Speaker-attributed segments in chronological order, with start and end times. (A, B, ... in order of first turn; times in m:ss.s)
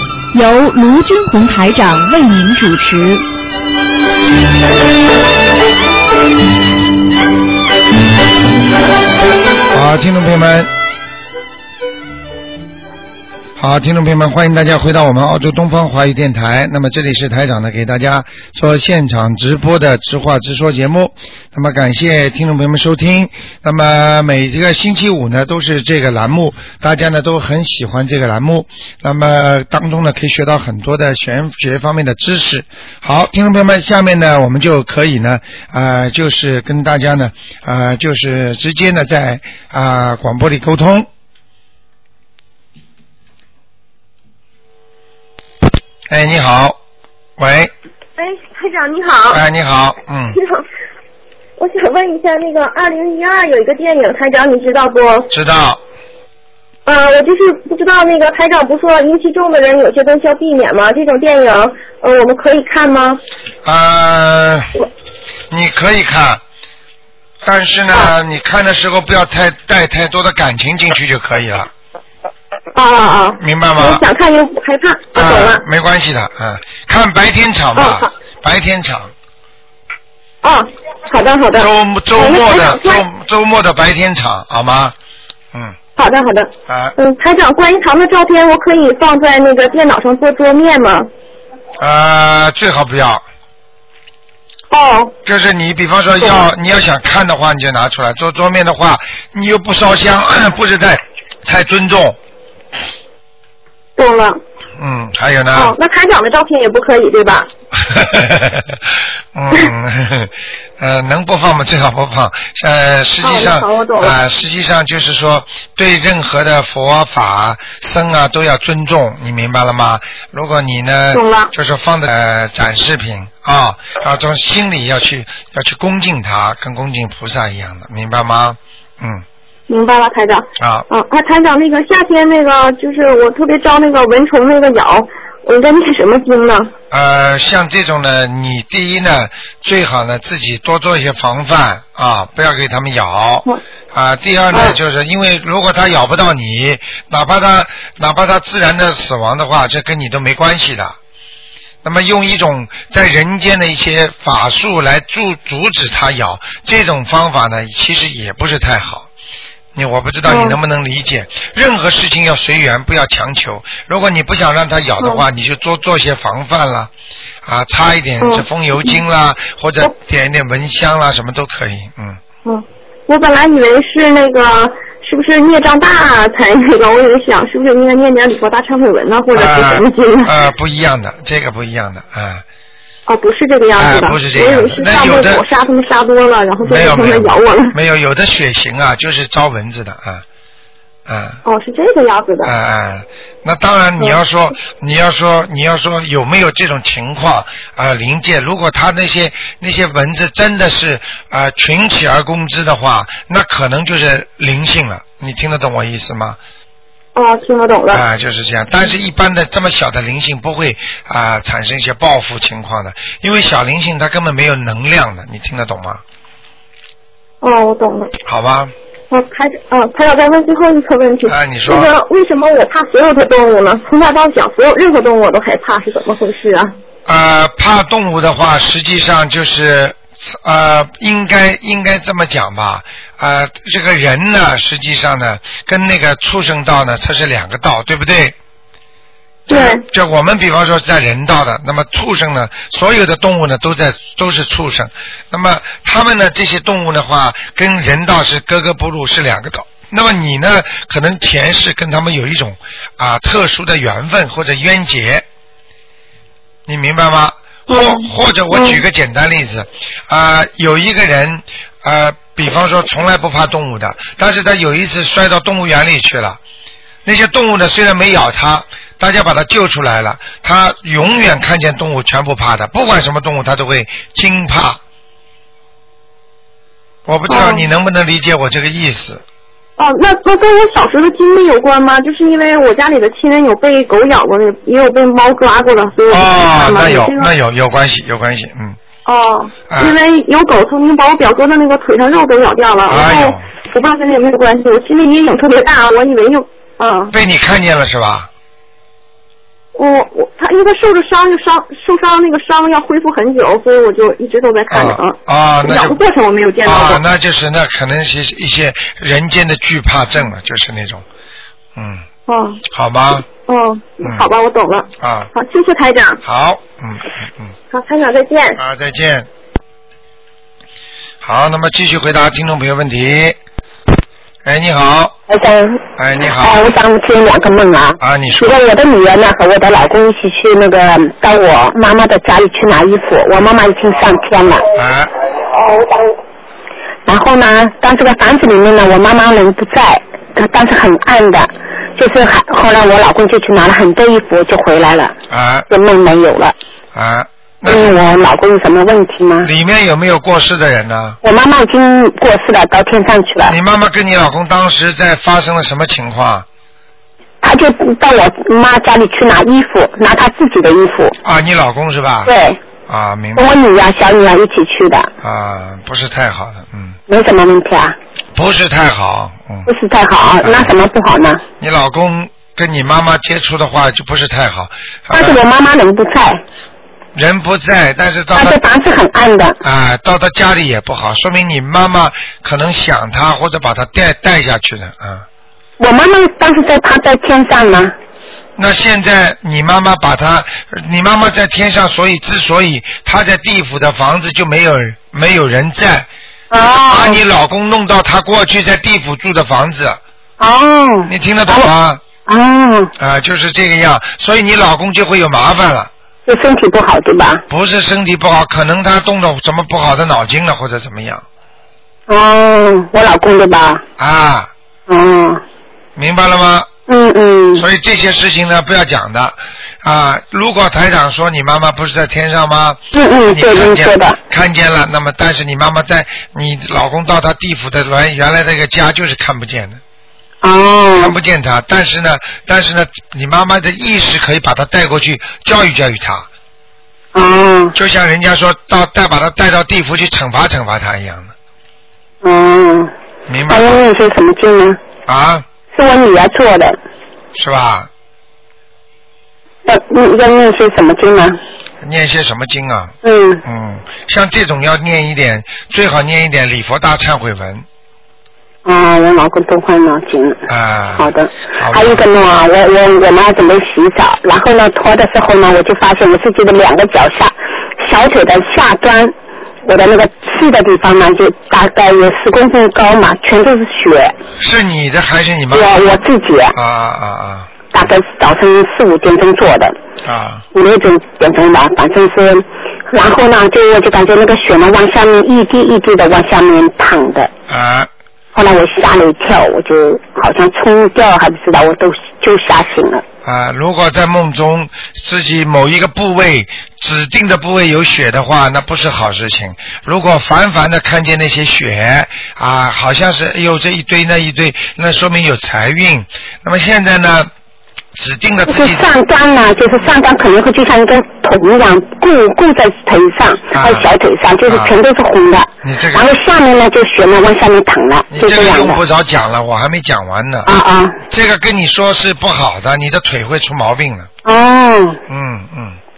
0:00.3-0:03.2 A
0:09.7-0:10.7 B
0:13.6-0:41.1 B
0:46.1-0:46.8 B
0:47.4-0:47.7 B
0:48.2-0:49.4 C
0:49.3-0:50.4 B
0:50.3-0:50.6 C
0:51.6-0:55.3 C
0:55.3-0:55.8 B
0:56.9-1:03.2 C
1:03.6-1:04.7 B
1:05.5-1:06.4 B
1:07.4-1:11.7 B
1:12.7-1:15.6 C
1:13.4-1:14.0 B
1:15.1-1:19.1 B
1:17.8-1:18.1 C
1:20.4-1:23.0 C
1:21.6-1:25.0 B
1:26.0-1:31.1 C
1:26.7-1:26.9 B
1:31.8-1:33.2 B
1:34.7-1:35.1 C
1:35.2-1:42.2 B
1:36.2-1:36.4 C
1:44.0-1:44.4 C
1:44.8-1:45.8 B
1:45.5-1:47.5 C
1:47.8-1:48.8 B
1:49.3-2:09.2 B
1:53.2-1:54.2 C
2:01.1-2:01.5 C
2:09.7-2:16.7 C
2:10.6-2:10.9 B
2:16.9-2:31.0 B
2:24.5-2:24.8 C
2:31.8-2:39.1 B
2:39.7-2:46.9 B
2:40.2-2:40.6 C
2:45.0-2:45.2 C
2:47.4-2:52.2 B
2:48.2-2:49.0 C
2:52.4-3:00.4 C
2:59.3-3:02.4 B
3:03.1-3:07.8 C
3:03.8-3:05.4 B
3:06.6-3:10.2 B
3:11.1-3:11.4 B
3:11.4-3:12.5 C
3:12.4-3:26.4 B
3:27.2-3:28.0 C
3:27.9-3:36.0 B
3:37.4-3:38.1 C
3:38.2-3:38.7 B
3:39.1-3:46.7 C
3:41.3-3:41.9 B
3:47.0-3:58.4 B
3:59.5-4:15.2 B
3:59.5-3:59.8 C
4:16.7-4:26.4 B
4:17.7-4:18.8 C
4:27.0-4:34.8 B
4:37.1-4:39.2 B
4:37.3-4:37.7 C
4:39.8-4:47.3 C
4:46.1-4:48.8 B
4:49.1-4:57.1 C
4:49.7-4:50.0 B
4:52.9-4:53.5 B
4:57.1-4:58.3 B
4:59.8-5:07.0 C
5:04.7-5:06.0 B
5:06.6-5:11.0 B
5:11.8-5:12.1 B
5:12.3-5:12.6 C
5:12.7-5:13.3 B
5:13.4-5:16.2 C
5:15.0-5:15.3 B
5:16.2-5:17.6 B
5:17.7-5:18.6 C
5:18.6-5:19.3 B
5:21.2-5:23.4 B
5:24.4-5:25.2 B
5:25.3-5:34.6 D
5:26.0-5:26.6 B
5:28.0-5:28.6 B
5:34.8-5:35.1 B
5:35.6-5:35.9 C
5:37.1-5:45.2 D
5:45.3-5:45.7 B
5:45.7-5:46.6 D
5:46.9-5:48.0 B
5:47.7-5:49.5 D
5:49.4-5:51.2 B
5:51.2-5:53.6 D
5:53.5-5:56.5 B
5:57.4-6:01.2 D
6:01.2-6:02.3 B
6:02.2-6:02.6 D
6:02.9-6:03.5 B
6:03.4-6:05.1 D
6:05.2-6:07.0 B
6:07.1-6:08.0 D
6:08.4-6:09.7 B
6:09.7-6:11.4 D
6:10.4-6:10.7 B
6:11.6-6:15.4 B
6:15.1-6:16.4 D
6:17.2-6:18.6 B
6:18.3-6:19.6 D
6:19.6-6:25.2 B
6:25.8-6:27.9 D
6:28.6-6:36.1 B
6:36.5-6:37.2 D
6:36.8-6:40.0 B
6:40.4-6:41.7 D
6:41.1-6:42.0 B
6:42.2-6:42.9 D
6:43.0-6:45.9 B
6:46.2-6:47.4 D
6:47.5-6:51.2 B
6:52.1-6:53.8 D
6:54.0-6:54.5 B
6:54.9-6:55.4 D
6:56.0-6:56.7 B
6:56.9-6:57.7 D
6:57.6-7:09.8 B
7:02.9-7:04.2 D
7:10.4-7:11.2 D
7:11.0-7:16.3 B
7:17.1-7:17.8 D
7:17.8-7:21.3 B
7:22.2-7:22.9 D
7:23.3-7:23.8 B
7:23.5-7:24.8 D
7:25.1-7:25.4 B
7:25.7-7:26.8 D
7:27.4-7:27.9 B
7:29.6-7:31.4 D
7:31.8-7:37.6 B
7:33.0-7:33.4 D
7:38.6-7:40.4 D
7:40.5-7:42.0 B
7:41.0-7:54.2 D
7:54.4-7:55.7 B
7:55.5-7:56.6 D
7:56.5-7:57.5 B
7:57.7-7:59.8 D
8:00.0-8:00.4 B
8:00.5-8:07.3 D
8:07.5-8:07.9 B
8:08.3-8:13.0 D
8:13.2-8:27.3 B
8:28.0-8:28.9 B
8:28.5-8:38.8 D
8:33.5-8:33.8 B
8:35.6-8:36.1 B
8:38.1-8:40.5 B
8:40.4-8:41.0 D
8:41.1-8:44.1 B
8:44.2-8:45.0 D
8:45.1-8:45.8 B